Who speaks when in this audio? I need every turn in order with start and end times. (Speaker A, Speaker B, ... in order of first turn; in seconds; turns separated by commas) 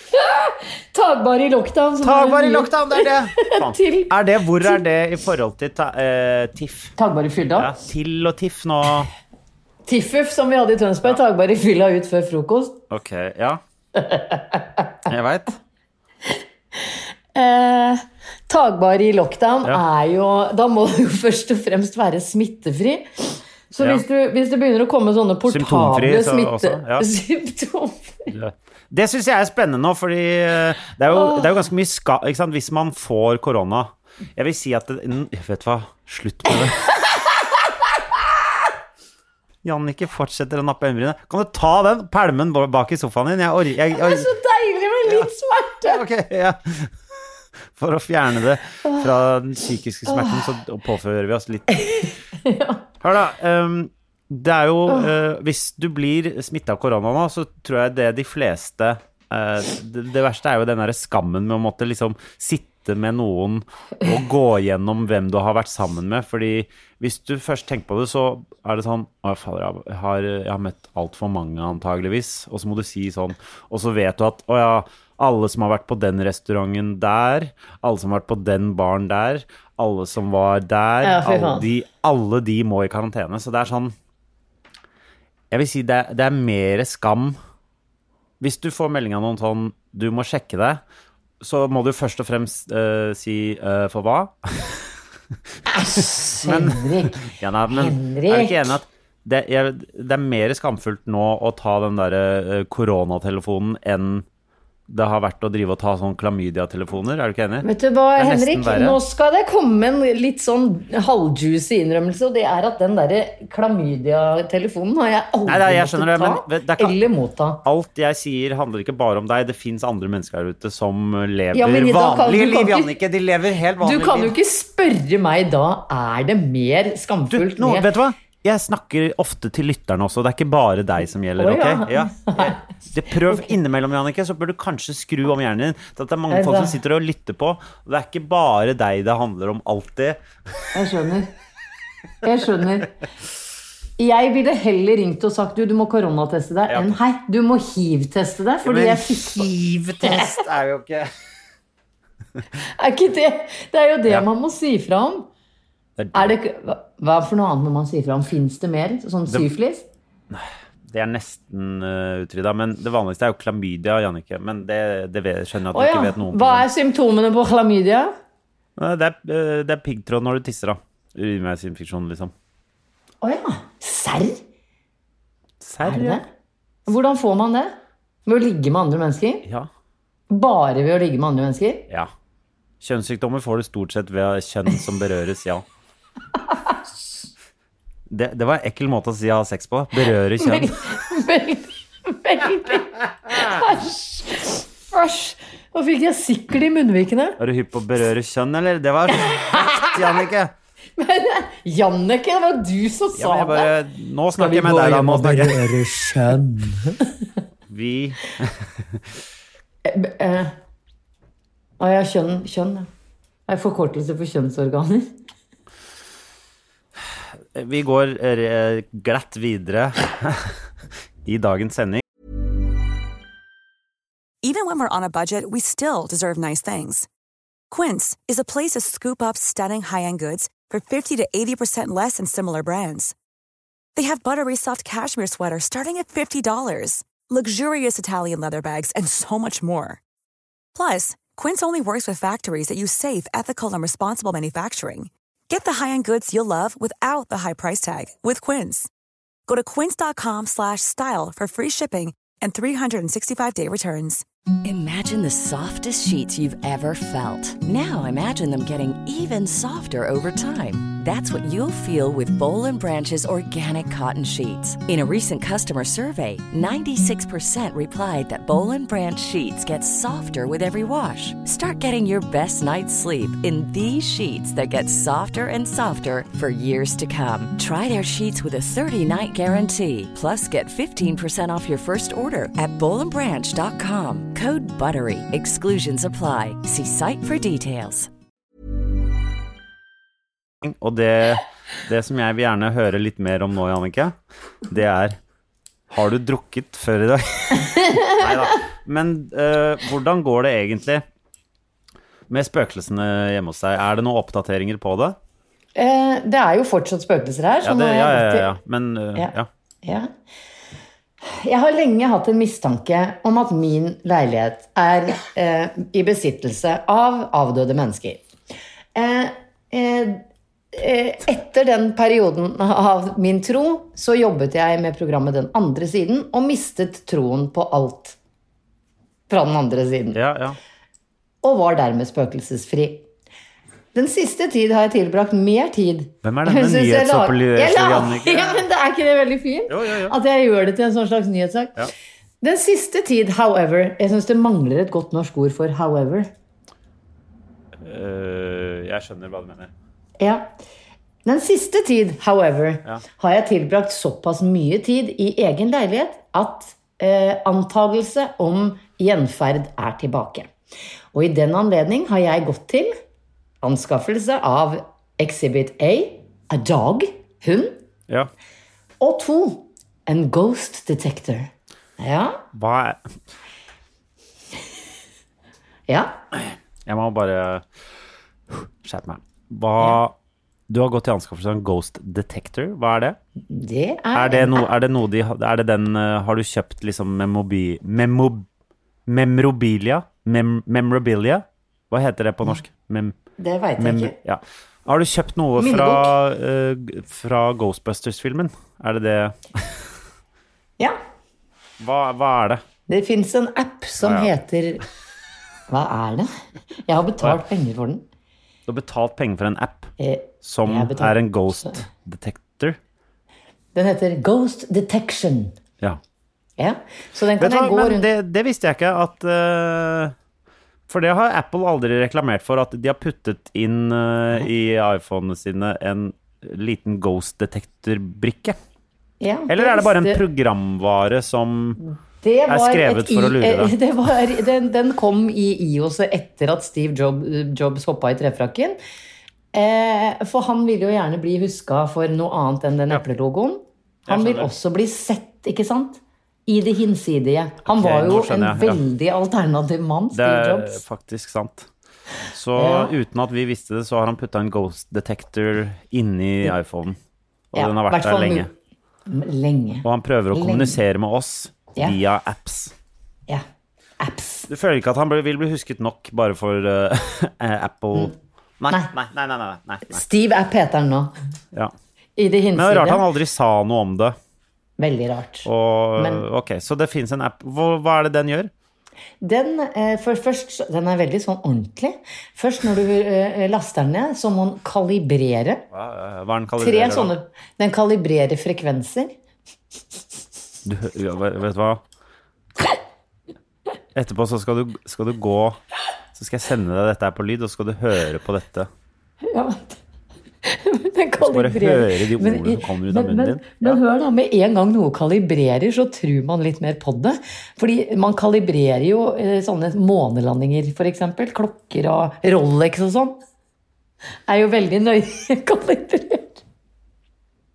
Speaker A: 0.1-4.8, Speaker B: 2.0-7.0, Speaker A: 7.0-7.7, Speaker B: 7.6-9.1, Speaker A: 9.9-12.8, Speaker B: 12.9-13.6, Speaker A: 13.9-14.9, Speaker B: 15.1-15.6, Speaker A: 16.8-28.3, Speaker B: 23.8-24.0, Speaker B: 25.5-27.1, Speaker B: 28.3-36.8, Speaker A: 31.1-31.5, Speaker A: 37.1-37.5, Speaker B: 39.6-44.3, Speaker A: 43.9-46.0, Speaker B: 45.9-46.9, Speaker B: 47.7-52.1, Speaker A: 50.1-50.5, Speaker A: 51.8-52.8, Speaker B: 53.0-83.9, Speaker A: 81.0-81.7, Speaker B: 85.5-87.4, Speaker B: 88.4-90.8, Speaker B: 91.4-94.9, Speaker A: 95.7-98.7, Speaker B: 96.0-104.2, Speaker B: 104.9-109.0, Speaker A: 107.6-117.6, Speaker B: 115.5-117.0, Speaker B: 117.6-124.4, Speaker A: 121.5-123.0, Speaker A: 123.8-127.9, Speaker B: 127.3-140.2, Speaker A: 131.4-132.6, Speaker A: 133.3-133.5, Speaker A: 136.3-136.8, Speaker A: 140.7-141.3, Speaker A: 142.2-142.9, Speaker A: 144.0-149.5, Speaker B: 146.7-147.0, Speaker B: 148.6-151.1, Speaker A: 150.0-150.3, Speaker A: 152.8-155.3, Speaker B: 156.0-156.3, Speaker A: 156.1-159.9, Speaker B: 160.3-166.7, Speaker A: 165.7-168.1, Speaker B: 168.8-172.3, Speaker A: 173.2-174.4, Speaker B: 175.6-176.2, Speaker A: 175.8-176.2, Speaker A: 176.9-177.8, Speaker A: 178.3-179.5, Speaker A: 180.3-181.9, Speaker B: 182.8-185.6, Speaker B: 188.1-190.7, Speaker A: 190.4-197.4, Speaker B: 197.4-200.5, Speaker A: 199.1-200.2, Speaker A: 201.0-203.7, Speaker B: 203.2-205.7, Speaker A: 204.3-207.2, Speaker B: 207.7-209.0, Speaker A: 209.8-210.6, Speaker A: 211.8-212.9, Speaker A: 213.5-215.2, Speaker B: 217.6-220.5, Speaker B: 221.2-222.0, Speaker C: 224.4-227.1, Speaker C: 227.7-233.2, Speaker C: 233.9-240.0, Speaker C: 240.8-248.9, Speaker C: 249.5-254.2, Speaker D: 254.6-288.1, Speaker B: 290.6-294.1, Speaker B: 294.7-295.2, Speaker B: 295.9-301.0, Speaker B: 302.3-305.2, Speaker A: 305.8-308.5, Speaker B: 307.6-309.5, Speaker A: 309.2-310.1, Speaker A: 311.2-318.2, Speaker A: 318.9-328.2, Speaker A: 329.3-330.2, Speaker B: 330.1-330.6, Speaker A: 331.4-333.1, Speaker A: 333.9-341.9, Speaker B: 336.2-338.6, Speaker B: 339.7-340.1, Speaker A: 342.4-346.3, Speaker B: 347.8-349.7, Speaker A: 350.2-350.5, Speaker A: 351.2-360.5, Speaker A: 361.1-362.9, Speaker A: 363.6-367.8, Speaker A: 369.0-372.4, Speaker B: 372.5-373.0, Speaker A: 375.9-376.2, Speaker B: 376.9-377.6, Speaker B: 378.5-380.1, Speaker B: 380.7-383.2, Speaker A: 383.5-384.7, Speaker B: 384.1-388.5, Speaker B: 389.1-393.1, Speaker A: 393.4-394.1, Speaker B: 393.8-399.7, Speaker A: 395.6-396.1, Speaker B: 401.8-402.6, Speaker A: 402.9-404.8, Speaker B: 404.0-404.3, Speaker A: 405.7-406.3, Speaker A: 406.9-408.0, Speaker B: 408.7-409.9, Speaker A: 410.0-411.1, Speaker B: 410.4-412.8, Speaker A: 413.8-415.6, Speaker A: 416.6-418.1, Speaker B: 417.4-420.1, Speaker B: 420.9-428.6, Speaker A: 429.2-430.2, Speaker B: 429.5-431.8, Speaker A: 432.2-438.8, Speaker B: 432.5-433.7, Speaker A: 439.5-450.8, Speaker B: 444.1-444.5, Speaker B: 447.7-448.8, Speaker B: 450.1-451.7, Speaker B: 452.3-457.0, Speaker A: 452.6-452.9, Speaker B: 457.5-458.5, Speaker A: 457.6-458.5, Speaker A: 459.1-460.8, Speaker B: 459.8-462.7, Speaker A: 464.0-464.5, Speaker B: 464.5-470.0, Speaker A: 469.9-471.1, Speaker A: 472.2-473.0, Speaker B: 472.6-474.2, Speaker A: 474.8-476.2, Speaker B: 475.4-478.5, Speaker A: 479.2-485.6, Speaker B: 485.7-487.1, Speaker A: 486.6-489.1, Speaker B: 490.6-491.8, Speaker B: 493.9-495.6, Speaker B: 496.1-498.7, Speaker A: 499.2-499.8, Speaker A: 500.4-513.2, Speaker B: 501.2-503.8, Speaker A: 514.3-516.4